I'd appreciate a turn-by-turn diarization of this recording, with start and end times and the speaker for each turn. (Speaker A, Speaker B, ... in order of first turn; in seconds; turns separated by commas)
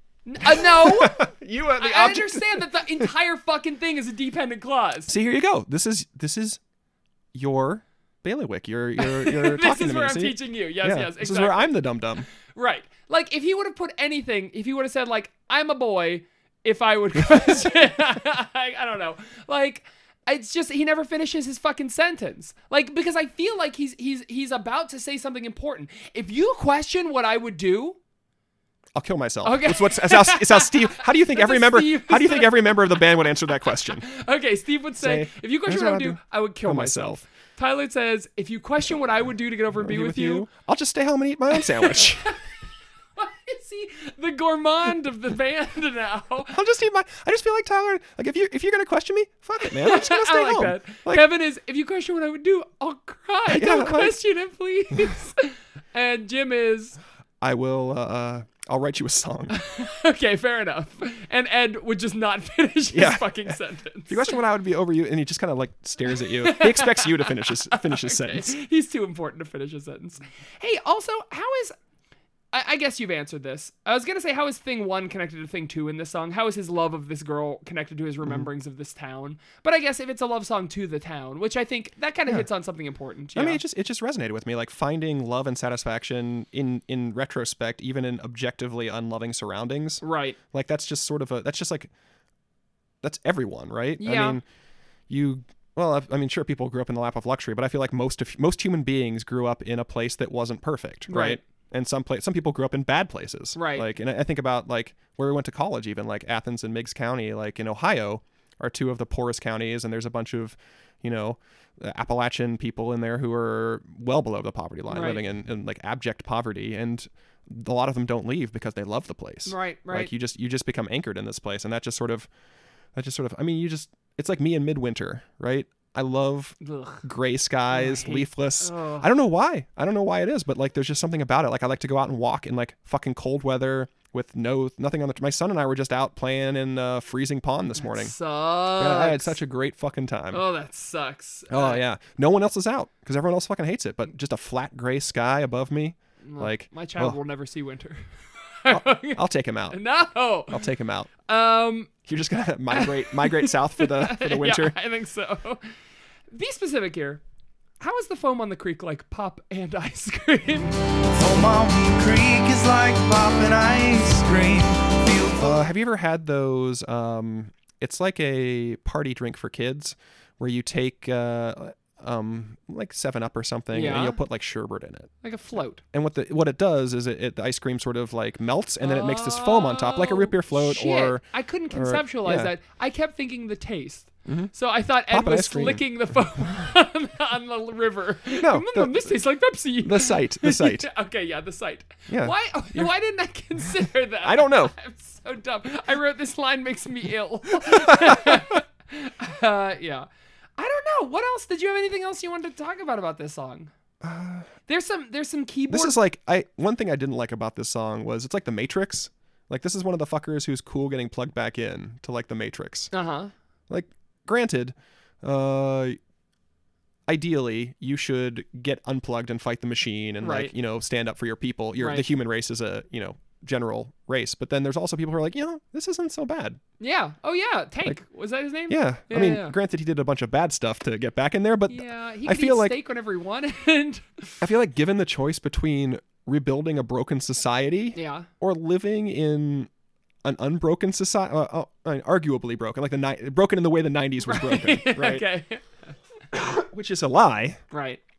Speaker A: 0.2-5.1, Speaker B: 0.4-3.1, Speaker B: 5.1-6.6, Speaker B: 7.3-12.2, Speaker A: 9.0-11.8, Speaker A: 12.5-28.0, Speaker B: 17.1-17.8, Speaker B: 28.9-34.0, Speaker A: 29.4-32.8, Speaker A: 33.9-40.5, Speaker B: 35.0-37.2, Speaker B: 39.7-42.3, Speaker A: 41.5-42.4, Speaker A: 43.2-46.6, Speaker B: 46.5-51.2, Speaker A: 49.6-57.0, Speaker B: 53.5-54.2, Speaker B: 57.4-59.6, Speaker A: 59.5-64.3, Speaker B: 62.9-68.5, Speaker A: 66.2-71.7, Speaker A: 72.5-83.6, Speaker B: 83.3-91.9, Speaker A: 90.0-90.4, Speaker B: 93.0-94.4, Speaker A: 94.0-94.4, Speaker B: 95.1-122.3, Speaker A: 101.1-101.4, Speaker A: 103.5-103.9, Speaker A: 114.9-115.2, Speaker A: 119.5-120.1, Speaker B: 122.9-138.1, Speaker A: 126.6-127.0, Speaker A: 127.7-129.1, Speaker A: 137.8-139.4, Speaker B: 138.8-140.4, Speaker A: 140.3-141.8, Speaker B: 141.5-147.2, Speaker A: 146.2-150.6, Speaker B: 148.7-149.8, Speaker B: 150.5-151.1, Speaker A: 151.2-151.9, Speaker B: 152.0-154.7, Speaker A: 152.7-155.7, Speaker A: 156.3-157.2, Speaker A: 157.8-160.8, Speaker C: 161.1-165.7, Speaker B: 165.4-175.1, Speaker A: 173.7-174.2, Speaker A: 175.2-175.8, Speaker B: 175.9-182.5, Speaker A: 178.8-203.7, Speaker B: 184.2-184.5, Speaker B: 185.1-185.8, Speaker B: 188.3-189.2, Speaker B: 189.8-190.9, Speaker B: 192.1-192.9, Speaker B: 194.2-194.7, Speaker B: 197.7-198.6, Speaker B: 204.0-204.5, Speaker A: 204.7-205.9, Speaker B: 205.7-212.9, Speaker A: 212.9-213.3, Speaker B: 213.7-216.0, Speaker B: 217.1-226.6, Speaker A: 220.2-220.5, Speaker A: 221.8-222.0, Speaker A: 226.8-229.5, Speaker B: 228.7-232.8, Speaker A: 231.7-234.4, Speaker B: 234.4-239.7, Speaker A: 237.9-238.3, Speaker B: 240.2-245.2, Speaker A: 244.2-245.9, Speaker B: 246.3-247.6, Speaker A: 247.7-248.0